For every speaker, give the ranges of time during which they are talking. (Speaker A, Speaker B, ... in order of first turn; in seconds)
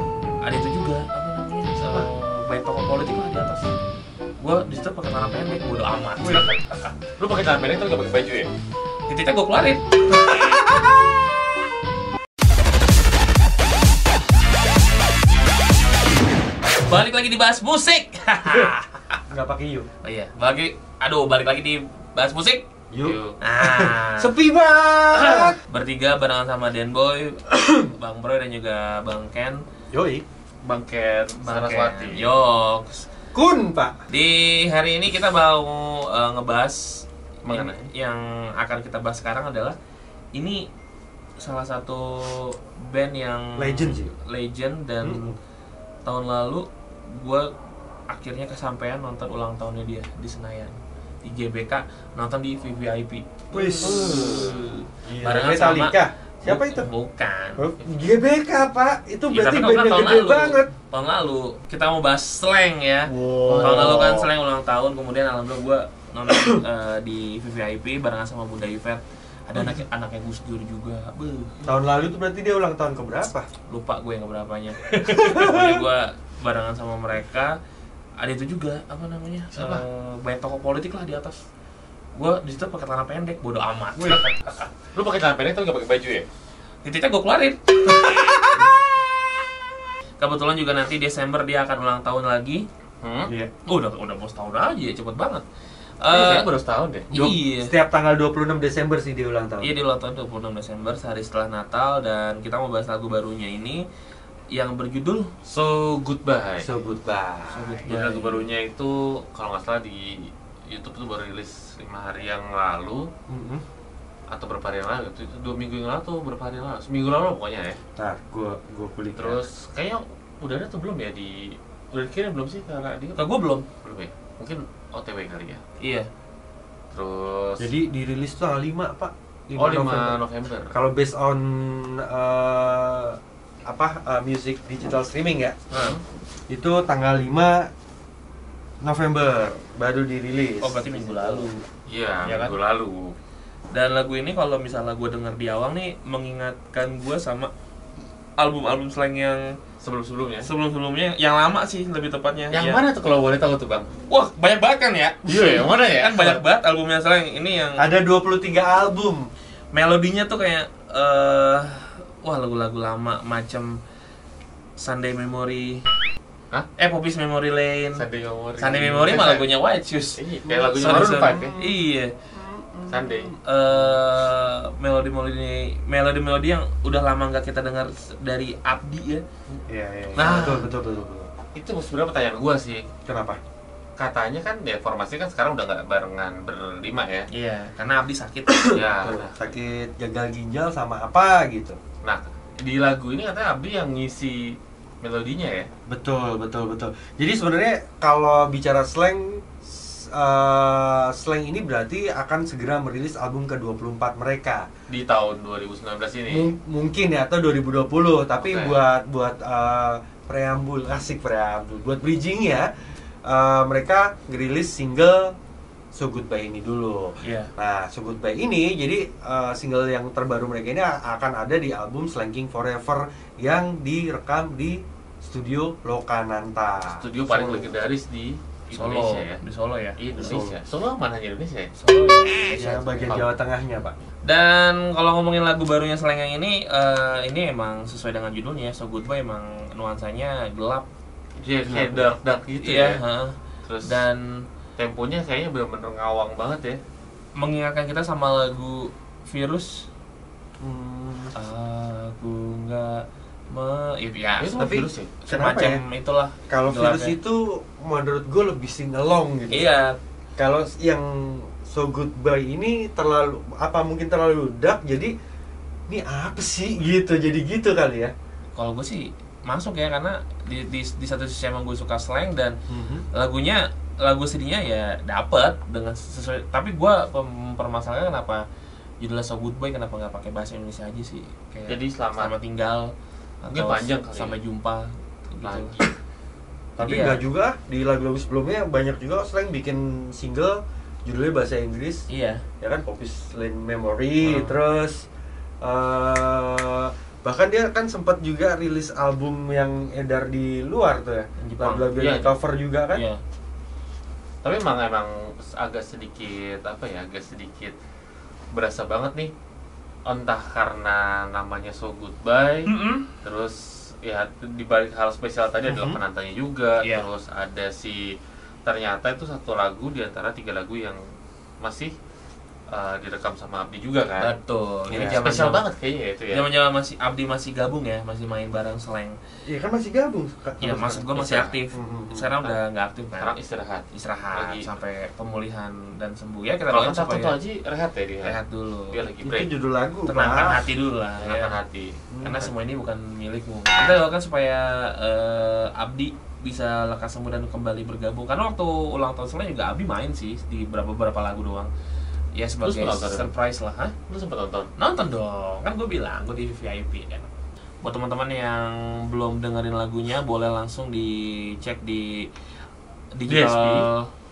Speaker A: 0.4-3.7, 4.4-6.5, 9.1-10.7, 16.8-19.2, 20.0-22.6, 23.4-24.3, 25.6-29.6, 31.4-33.1, 34.1-39.8, 40.4-40.7, 41.4-45.3, 46.0-47.5, 48.1-57.7, 59.3-71.6, 73.7-77.6, 78.2-81.4, 82.2-84.3, 86.8-88.9, 90.2-92.7, 93.7-95.4, 96.0-96.5, 97.1-97.7, 99.6-103.8, 104.5-105.3, 107.5-108.5, 123.2-123.7, 125.8-126.1, 140.6-141.6, 142.2-142.6, 143.7-147.5, 148.4-149.6, 150.4-152.8, 154.1-155.3, 155.9-157.8, 159.7-163.8, 164.8-165.8, 166.8-168.0, 168.6-172.1, 173.4-179.2, 187.3-188.7, 217.2-217.5, 228.7-230.4, 231.8-233.3, 234.2-240.9, 242.6-244.4, 247.4-249.9, 251.3-254.6, 255.2-257.1, 259.5-260.0, 268.6-272.5, 273.1-278.4, 279.0-282.9, 283.4-285.8, 286.8-287.2, 292.1-292.4, 294.2-294.5, 301.4-301.9, 302.9-303.2, 312.7-313.1, 316.8-317.1, 324.2-325.6, 326.3-329.2, 330.6-333.3, 333.9-337.4, 338.2-339.0, 340.1-341.5, 342.2-351.7, 352.3-353.9, 354.8-357.3, 357.8-362.3, 363.1-364.1
Speaker B: 1.8-2.1, 6.2-8.5, 23.0-23.4, 30.6-32.3, 37.4-37.9, 53.8-54.6, 63.4-64.3, 79.5-79.8, 84.8-86.3, 93.0-93.3, 96.1-97.1, 105.4-106.7, 107.8-113.1, 114.3-117.8, 119.2-123.2, 123.8-125.6, 126.9-127.7, 129.6-130.7, 135.7-136.0, 141.8-143.2, 149.8-150.5, 152.5-153.9, 155.2-156.4, 167.9-169.5, 170.2-171.5, 172.9-173.3, 180.2-180.7, 181.5-182.9, 184.0-187.3, 188.7-189.5, 192.0-195.7, 204.9-206.5, 208.4-208.8, 226.9-229.4, 230.0-231.7, 241.4-243.0, 243.7-244.0, 244.8-246.8, 254.4-255.2, 281.7-282.3, 283.5-284.4, 285.4-285.9, 301.9-302.4, 304.4-307.8, 308.5-309.3, 310.1-312.7, 313.2-318.1, 318.6-321.0, 321.6-321.9, 322.7-324.3, 324.9-326.5, 331.1-331.6, 333.1-334.7, 336.7-338.4, 338.9-339.5, 341.2-342.0, 352.6-353.3, 354.1-354.7, 363.3-363.9
Speaker C: 19.3-19.9, 22.9-25.6, 27.5-27.8, 29.9-30.2, 33.3-34.0, 43.6-44.1, 45.0-45.3, 53.5-56.9, 57.6-60.7, 63.1-64.2, 66.3-66.6, 69.5-69.8, 71.6-73.5, 74.9-75.8, 97.1-99.7, 106.6-107.8, 113.3-113.6, 118.0-119.4, 127.6-130.2, 130.7-135.6, 136.5-137.7, 138.8-141.5, 157.8-159.3, 170.4-171.8, 172.3-173.3, 179.7-181.3, 183.1-183.4, 188.5-191.8, 195.9-204.7, 206.3-212.7, 213.2-215.3, 215.9-227.8, 230.1-230.6, 232.4-233.9, 241.6-242.1, 250.6-251.3, 254.5-255.8, 256.5-259.7, 260.4-265.1, 265.9-268.1, 272.7-273.1, 286.8-292.1, 292.6-295.0, 295.6-303.0, 315.7-316.0, 324.9-325.3, 329.4-331.1, 331.7-332.3, 339.2-340.7, 342.1-342.5